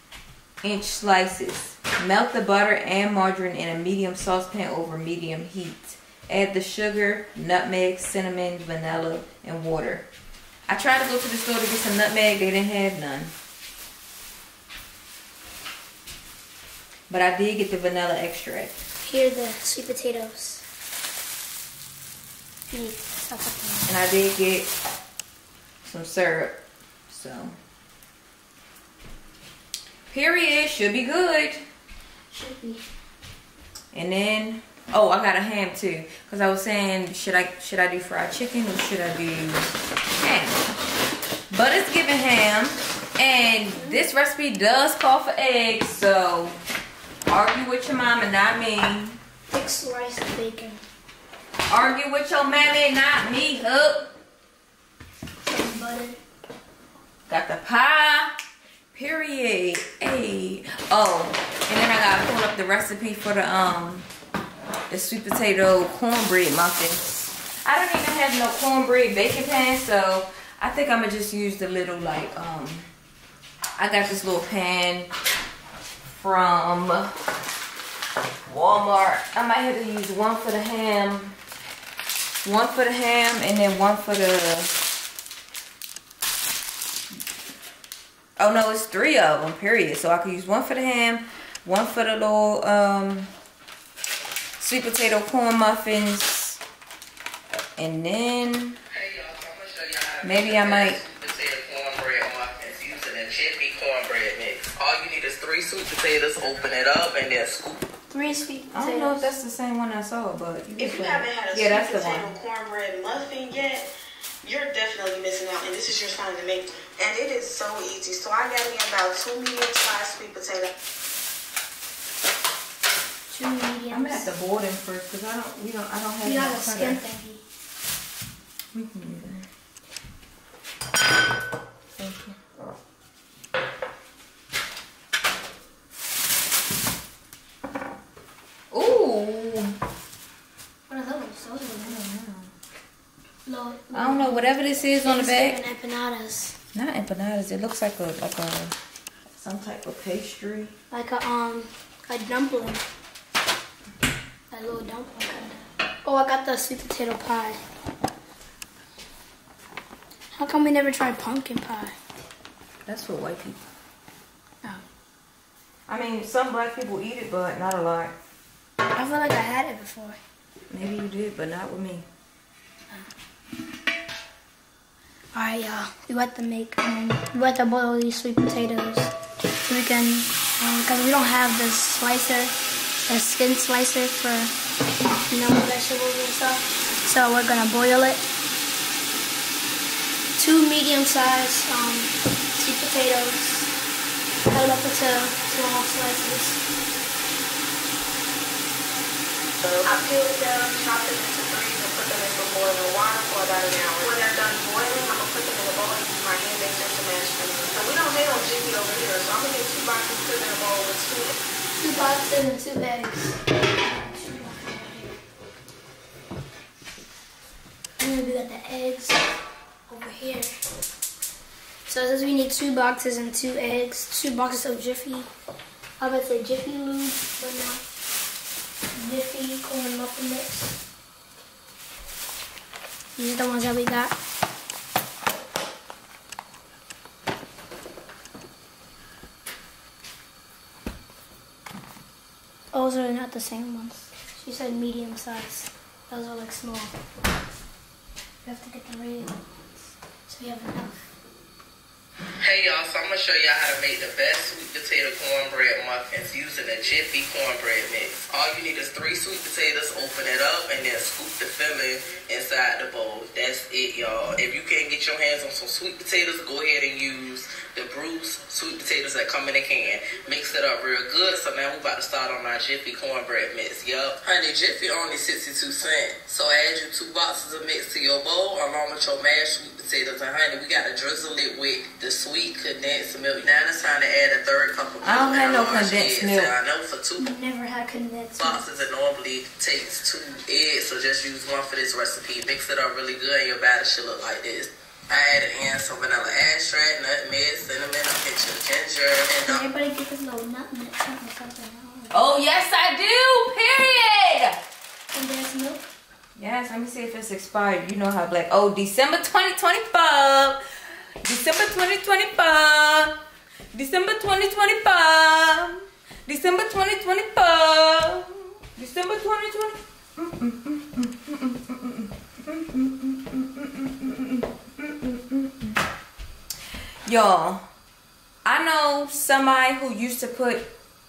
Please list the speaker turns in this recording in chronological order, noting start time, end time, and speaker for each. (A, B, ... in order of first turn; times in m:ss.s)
0:00.6-0:10.1 A
0:10.7-0:13.3 A
0:17.1-0:18.8 A
0:19.0-0:20.6 B
0:22.7-0:23.9 B
0:23.9-0:24.7 A
0:25.8-0:27.5 A
0:30.1-0:31.6 A
0:32.3-0:32.8 B
0:33.9-0:40.6 A
0:41.5-0:46.6 A
0:43.7-0:44.1 B
0:47.3-0:49.2 A
0:49.5-0:50.8 B
0:51.7-0:54.1 A
0:55.4-0:56.2 B
0:57.3-0:58.3 A
0:58.9-1:04.1 A
1:04.9-1:12.9 A
1:13.8-1:15.1 A
1:16.0-1:17.1 A
1:18.4-1:21.4 A
1:22.4-1:24.8 A
1:28.4-1:33.3 A
1:34.6-1:36.6 A
1:37.8-1:38.8 A
1:38.9-1:47.8 C
1:40.2-1:41.0 A
1:48.1-1:49.3 B
1:48.7-1:52.3 A
1:50.8-1:53.9 D
1:54.4-2:00.7 D
2:03.3-2:04.3 B
2:03.9-2:07.0 A
2:06.2-2:07.4 B
2:08.7-2:09.5 A
2:12.0-2:12.4 A
2:18.7-2:19.8 A
2:20.9-2:22.1 B
2:21.8-2:22.5 A
2:23.4-2:26.5 B
2:23.9-2:25.6 A
2:26.7-2:28.7 A
2:29.4-2:30.7 A
2:30.9-2:32.8 B
2:34.5-2:37.6 B
2:40.3-2:42.0 B
2:42.9-2:43.6 A
2:45.9-2:48.1 A
2:48.9-2:50.2 B
2:50.7-2:52.0 A
2:55.3-2:59.1 B
2:59.6-3:04.5 B
3:05.3-3:08.2 B
3:10.4-3:13.7 B
3:14.5-3:16.6 B
3:19.7-3:31.3 D
3:31.8-3:35.2 B
3:38.0-3:39.2 B
3:39.9-3:40.5 B
3:41.9-3:45.3 B
3:46.0-3:47.8 B
3:48.9-3:50.8 B
3:53.2-3:54.2 B
4:02.7-4:06.9 B
4:08.4-4:11.0 B
4:12.4-4:47.3 C
4:45.0-4:46.5 A
4:47.2-4:48.6 B
4:48.4-4:59.6 C
4:59.4-5:02.3 B
5:02.1-5:04.6 A
5:05.1-5:05.8 B
5:06.4-5:10.6 A
5:11.2-5:13.2 A
5:13.7-5:25.8 A
5:27.0-5:27.6 A
5:28.4-5:30.7 A